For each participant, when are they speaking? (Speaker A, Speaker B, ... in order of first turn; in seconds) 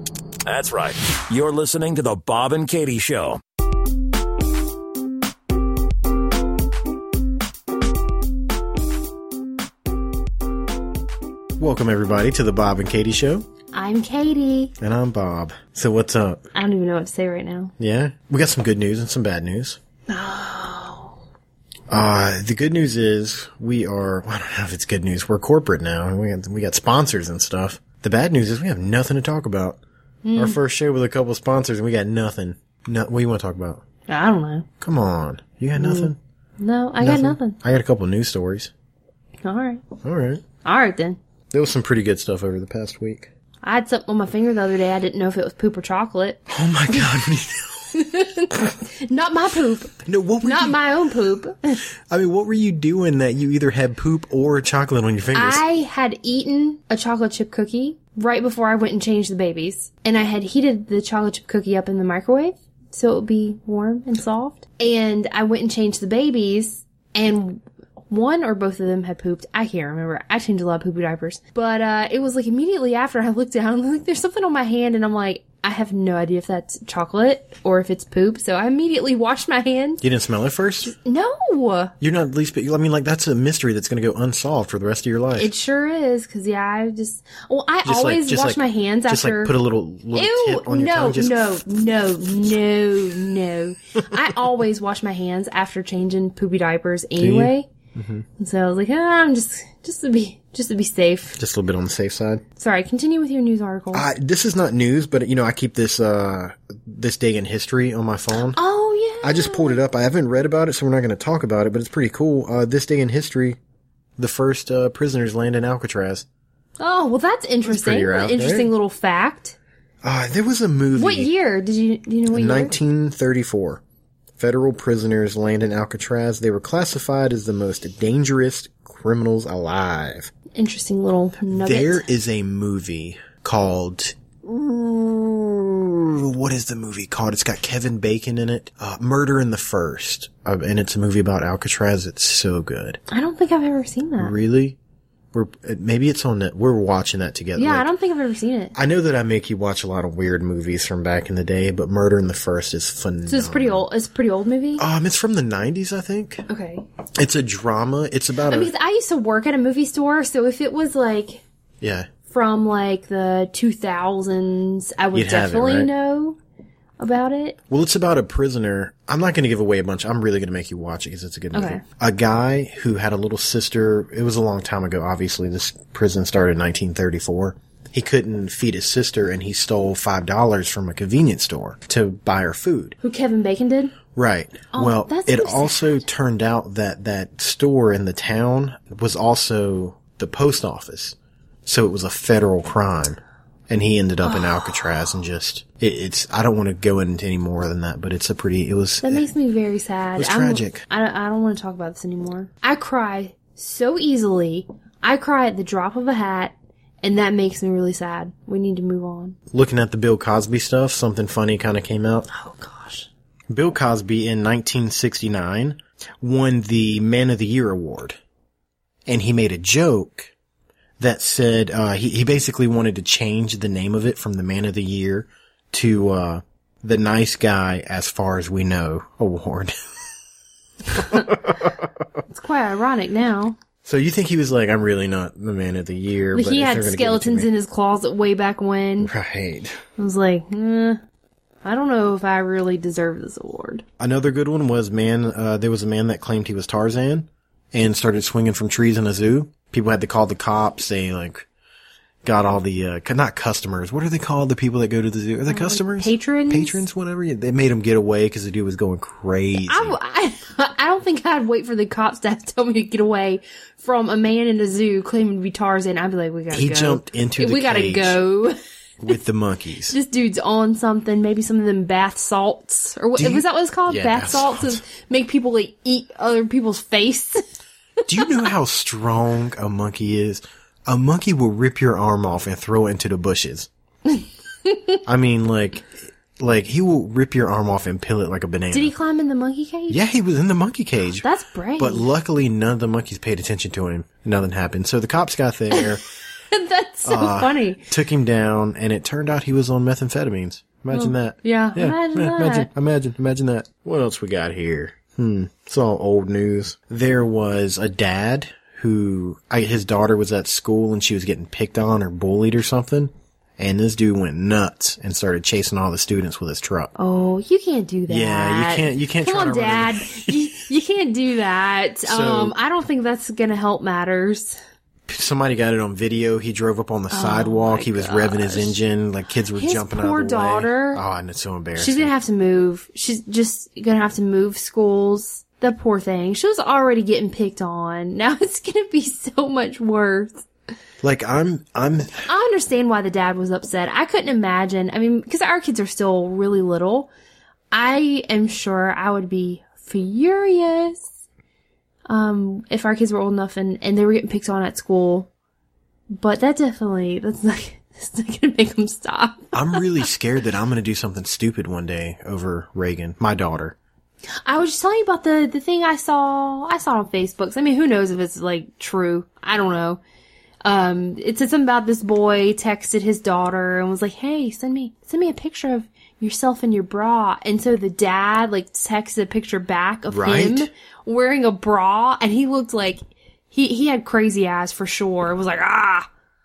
Speaker A: 0.5-3.4
Speaker B: 11.6-13.4, 14.8-16.4, 17.8-19.8, 21.9-29.8, 30.4-33.8, 34.8-36.2, 37.0-38.7, 40.0-40.4, 41.5-43.3, 46.5-47.9, 50.0-50.8, 52.1-55.6, 80.0-80.9, 82.0-85.5, 87.8-91.5, 97.2-98.2, 101.4-102.4, 103.9-108.6, 109.2-113.6, 114.2-116.2, 117.7-118.7, 120.0-121.3, 122.3-123.8, 124.4-130.3, 131.5-143.0, 144.2-144.8, 145.3-147.9, 148.7-153.8, 154.8-156.4, 157.2-158.7, 161.8-162.1, 165.1-165.9, 167.7-182.9, 184.1-199.3, 200.2-200.8, 209.5-212.3, 213.5-218.2, 219.1-220.3, 221.0-229.8, 230.9-231.8, 233.8-237.5, 239.0-239.8, 244.0-251.5, 252.2-259.9, 266.5-268.2, 269.0-270.0, 273.1-274.8, 278.1-283.7, 285.0-288.9, 289.9-291.2, 291.8-296.0, 297.0-316.9, 318.1-320.5, 322.0-322.5, 325.1-332.1, 341.0-342.2, 359.5-363.8, 380.1-380.7
Speaker C: 13.7-14.7, 16.5-17.7, 20.1-21.1, 30.2-30.6, 34.1-34.7, 35.8-37.6, 39.4-39.9, 40.6-41.2, 43.6-47.0, 47.9-51.8, 55.3-80.0, 80.8-81.9, 85.4-89.5, 90.1-97.7, 98.4-101.4, 102.6-104.1, 108.5-109.8, 116.8-119.6, 120.9-122.8, 130.5-132.1, 143.1-144.3, 147.6-148.7, 153.3-154.8, 156.5-156.8, 158.5-161.4, 162.3-166.4, 167.0-167.6, 171.5-171.8, 183.0-183.9, 184.7-186.1, 194.3-194.6, 199.0-209.4, 212.3-213.1, 232.3-233.6, 236.3-239.1, 240.0-241.0, 241.6-243.8, 255.5-256.8, 259.7-268.6, 269.9-277.4, 284.2-285.0, 288.7-290.0, 291.2-292.1, 296.5-297.9, 300.9-302.7, 317.0-324.6, 327.1-328.8, 329.6-331.0, 331.8-340.4, 342.2-347.1, 347.7-351.1, 352.1-355.3, 356.2-360.0, 364.4-370.0, 370.6-383.0, 383.5-386.1